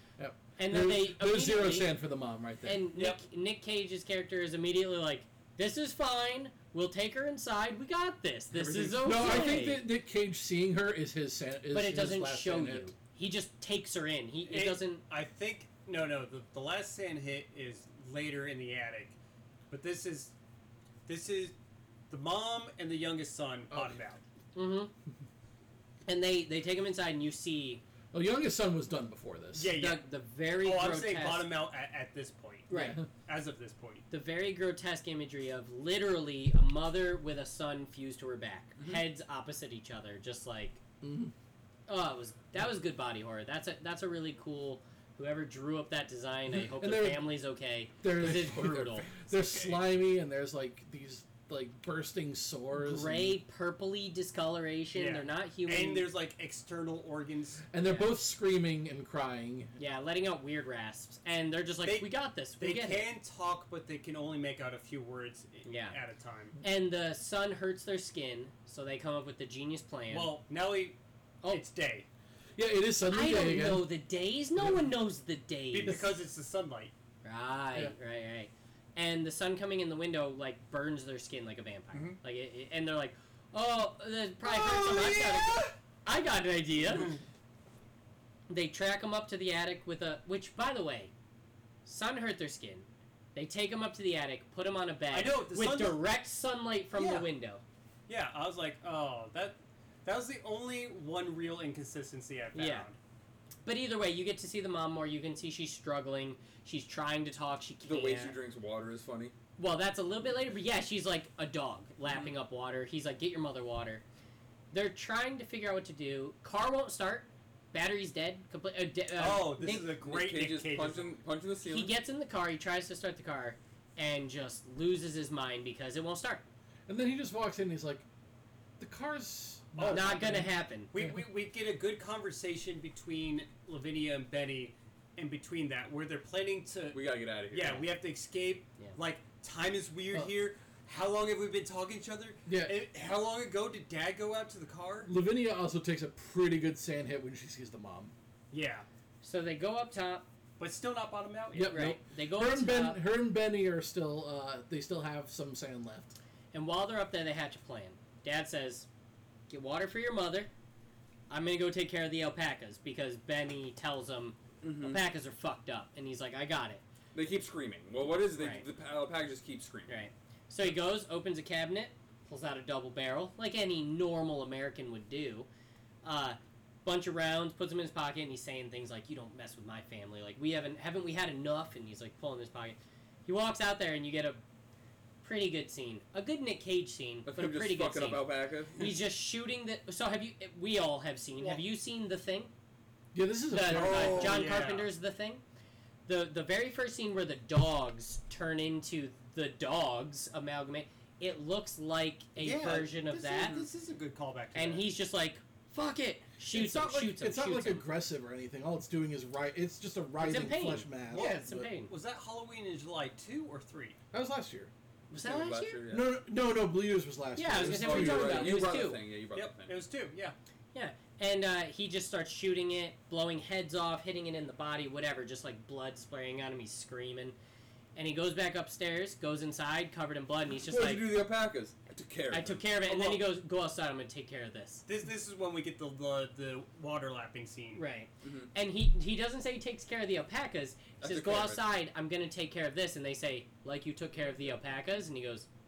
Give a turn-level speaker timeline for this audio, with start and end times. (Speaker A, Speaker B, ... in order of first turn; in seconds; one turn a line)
Speaker A: 0.2-2.9
Speaker B: 0.6-1.9
Speaker B: 2.6-9.9
Speaker A: 8.5-12.9
Speaker B: 11.7-15.0
Speaker C: 14.5-19.2
Speaker C: 19.7-20.3
Speaker C: 21.1-21.5
Speaker C: 22.1-24.2
Speaker B: 24.6-24.9
Speaker B: 26.1-27.8
Speaker A: 28.1-29.7
Speaker C: 29.6-30.1
Speaker B: 29.7-31.5
Speaker C: 30.6-34.0
Speaker B: 32.7-33.0
Speaker A: 32.7-33.0
Speaker B: 34.1-40.8
Speaker D: 38.8-39.1
Speaker A: 41.0-41.3
Speaker B: 41.9-49.1
Speaker A: 46.5-47.3
Speaker A: 48.0-53.4
Speaker B: 52.8-56.1
Speaker C: 55.0-57.6
Speaker A: 57.7-59.8
Speaker B: 57.8-58.1
Speaker B: 59.8-63.1
Speaker C: 61.8-66.6
Speaker B: 65.7-66.0
Speaker B: 66.6-70.3
Speaker C: 70.1-71.0
Speaker C: 71.5-72.1
Speaker A: 72.6-73.9
Speaker B: 73.1-76.0
Speaker A: 74.6-74.9
Speaker C: 75.7-76.9
Speaker B: 77.2-87.2
Speaker C: 84.6-85.7
Speaker B: 88.5-91.1
Speaker B: 91.8-97.6
Speaker C: 95.1-96.0
Speaker C: 97.0-97.3
Speaker C: 98.1-103.0
Speaker B: 102.5-102.9
Speaker B: 103.7-108.4
Speaker D: 107.8-109.3
Speaker B: 109.6-114.0
Speaker B: 114.7-119.9
Speaker C: 119.2-121.1
Speaker D: 120.0-121.9
Speaker B: 121.7-126.5
Speaker A: 126.9-128.1
Speaker A: 128.8-130.5
Speaker C: 129.8-145.1
Speaker B: 129.9-130.9
Speaker D: 136.9-137.9
Speaker A: 142.5-142.8
Speaker A: 145.1-148.1
Speaker C: 148.5-148.9
Speaker B: 149.2-150.2
Speaker C: 150.6-151.9
Speaker A: 151.5-156.2
Speaker B: 151.7-153.0
Speaker B: 156.5-158.9
Speaker B: 159.5-160.5
Speaker B: 161.3-166.8
Speaker D: 164.6-165.0
Speaker D: 167.2-170.0
Speaker B: 168.4-168.7
Speaker B: 169.9-175.5
Speaker B: 176.0-184.4
Speaker B: 185.2-192.5
Speaker D: 187.2-188.9
Speaker A: 193.1-194.7
Speaker B: 193.5-195.4
Speaker C: 193.7-194.9
Speaker B: 196.1-203.7
Speaker C: 202.4-204.9
Speaker B: 204.6-207.8
Speaker A: 206.5-211.7
Speaker B: 210.2-211.9
Speaker C: 211.1-214.0
Speaker A: 214.1-214.7
Speaker B: 215.1-215.8
Speaker D: 215.1-216.1
Speaker A: 215.9-218.8
Speaker B: 217.4-219.0
Speaker D: 217.6-219.7
Speaker C: 219.3-220.3
Speaker B: 220.7-227.3
Speaker B: 228.0-231.1
Speaker D: 230.7-232.6
Speaker B: 232.3-234.8
Speaker C: 232.8-233.2
Speaker C: 234.9-237.8
Speaker B: 237.7-245.5
Speaker D: 238.2-238.5
Speaker D: 241.0-241.7